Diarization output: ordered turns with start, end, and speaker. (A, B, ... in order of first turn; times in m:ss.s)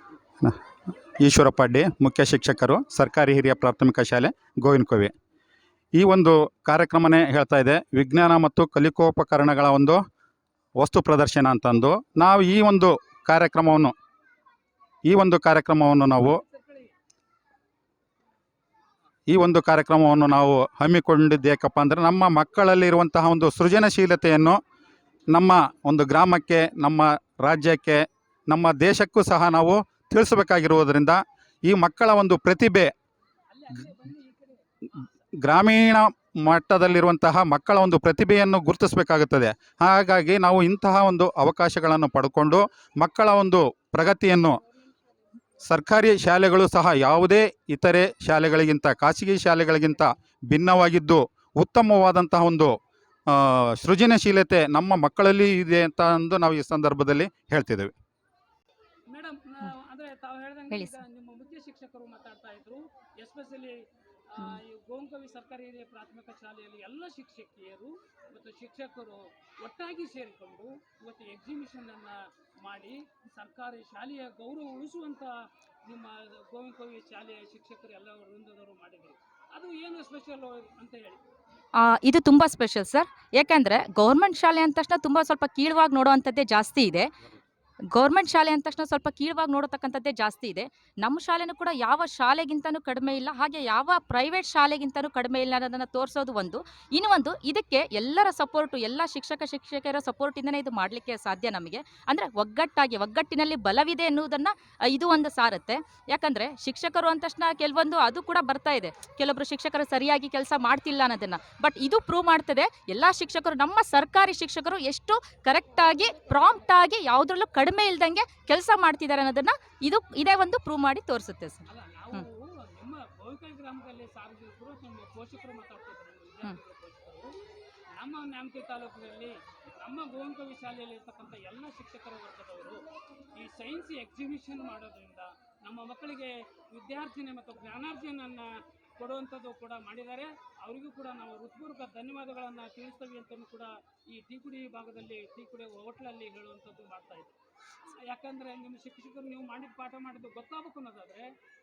0:01.2-0:05.1 A
0:05.9-0:10.0 A
0:10.8-0:13.9 A
0:15.0-0:16.4 A
0:16.3-0:16.9 B
0:19.3-0:24.6 A
0:25.3-0:32.9 A
0:33.5-0:35.2 B
0:35.4-0:44.6 A
0:45.6-0:52.8 A
0:53.3-0:57.9 A
0:59.1-1:15.3 B
1:00.7-1:01.0 C
1:15.8-1:21.2 B
1:21.7-1:27.1 C
1:27.9-2:02.2 C
2:01.7-2:07.3 B
2:07.9-2:12.8 B
2:13.3-2:27.3 B
2:28.0-2:31.3 B